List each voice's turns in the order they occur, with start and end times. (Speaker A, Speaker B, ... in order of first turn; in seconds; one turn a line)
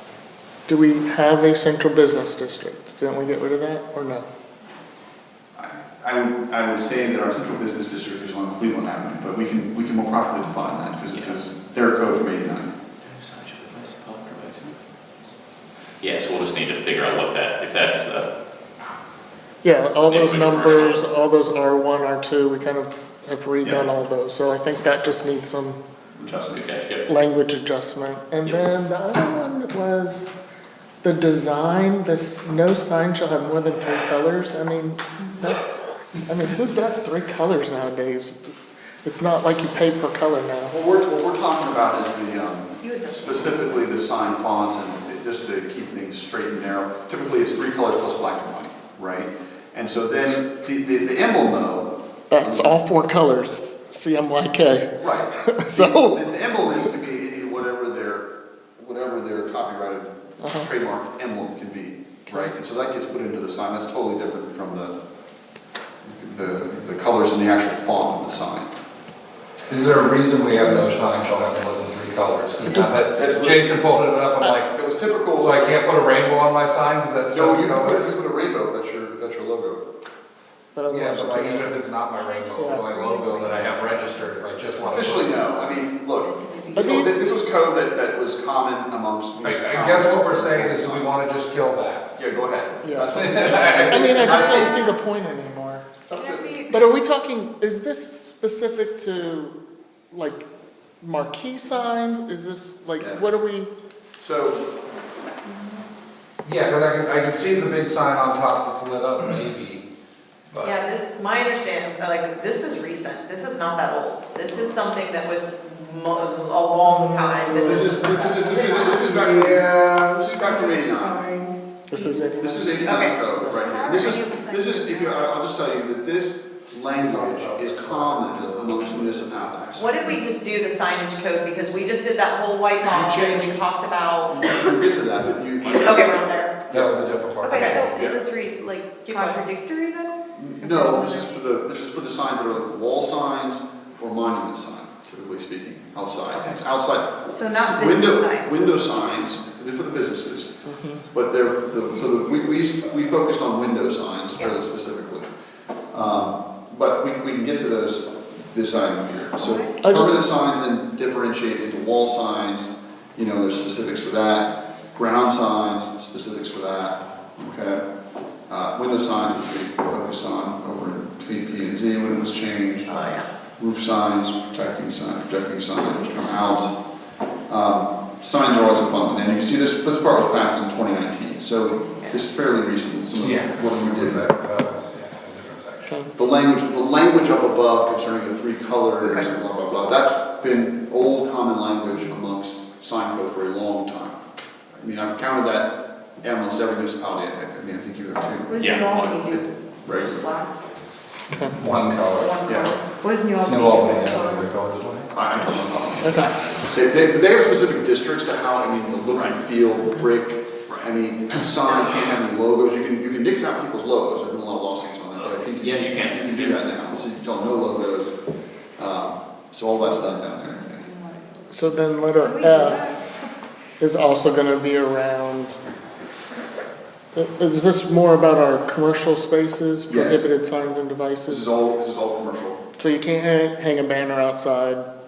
Speaker A: 0.7-4.3
Speaker B: 5.6-12.7
Speaker C: 13.1-14.7
Speaker C: 16.0-18.3
Speaker A: 19.6-25.8
Speaker C: 20.1-21.0
Speaker B: 23.6-23.9
Speaker B: 26.2-26.7
Speaker C: 26.6-27.1
Speaker A: 27.1-30.3
Speaker A: 31.0-38.5
Speaker A: 39.0-40.7
Speaker B: 40.7-52.8
Speaker D: 42.8-43.9
Speaker A: 52.3-54.9
Speaker B: 55.0-64.9
Speaker A: 55.5-56.2
Speaker A: 60.4-60.7
Speaker A: 62.3-62.5
Speaker B: 66.0-68.7
Speaker E: 69.7-74.7
Speaker A: 70.6-70.9
Speaker A: 72.7-73.0
Speaker B: 73.2-73.7
Speaker B: 74.7-75.9
Speaker E: 75.4-78.2
Speaker B: 77.3-79.8
Speaker A: 80.8-81.8
Speaker E: 80.9-85.3
Speaker D: 82.2-84.4
Speaker A: 82.5-82.8
Speaker B: 84.8-91.1
Speaker D: 85.4-87.4
Speaker A: 86.8-87.2
Speaker E: 89.4-92.1
Speaker B: 92.2-94.8
Speaker A: 92.8-95.9
Speaker E: 93.1-94.8
Speaker B: 96.1-96.6
Speaker D: 96.1-97.0
Speaker A: 96.7-99.6
Speaker A: 100.1-100.5
Speaker A: 101.0-103.7
Speaker B: 103.0-103.4
Speaker B: 104.2-104.6
Speaker D: 105.5-105.9
Speaker E: 106.5-109.8
Speaker E: 110.5-110.8
Speaker F: 110.6-119.0
Speaker A: 117.4-118.1
Speaker B: 117.5-121.4
Speaker A: 119.0-119.5
Speaker D: 120.3-122.1
Speaker A: 121.9-123.5
Speaker B: 122.4-130.0
Speaker F: 122.8-123.2
Speaker D: 123.4-125.2
Speaker E: 127.0-129.7
Speaker F: 129.8-134.5
Speaker B: 132.8-133.6
Speaker B: 134.3-136.2
Speaker F: 135.7-136.6
Speaker E: 136.7-138.2
Speaker D: 137.4-141.5
Speaker F: 137.5-137.7
Speaker B: 137.8-138.2
Speaker F: 139.1-139.4
Speaker B: 140.3-150.5
Speaker D: 147.3-148.5
Speaker A: 150.7-151.1
Speaker B: 151.1-155.3
Speaker B: 155.9-167.8
Speaker D: 159.4-159.8
Speaker A: 159.9-160.3
Speaker B: 168.5-173.0
Speaker F: 172.9-173.3
Speaker B: 173.6-176.8
Speaker B: 177.5-184.2
Speaker E: 183.2-186.1
Speaker B: 186.2-194.2
Speaker F: 189.1-189.3
Speaker B: 194.7-200.3
Speaker D: 198.5-200.6
Speaker C: 198.6-199.2
Speaker E: 201.4-202.4
Speaker D: 202.0-204.6
Speaker B: 202.4-202.8
Speaker E: 203.4-205.1
Speaker B: 205.1-218.1
Speaker A: 206.0-206.3
Speaker C: 215.2-216.7
Speaker B: 218.8-220.9
Speaker D: 219.9-221.6
Speaker A: 221.5-222.8
Speaker D: 222.2-223.3
Speaker A: 223.8-225.6
Speaker A: 227.2-231.5
Speaker B: 229.9-230.3
Speaker B: 231.3-232.6
Speaker A: 232.8-234.9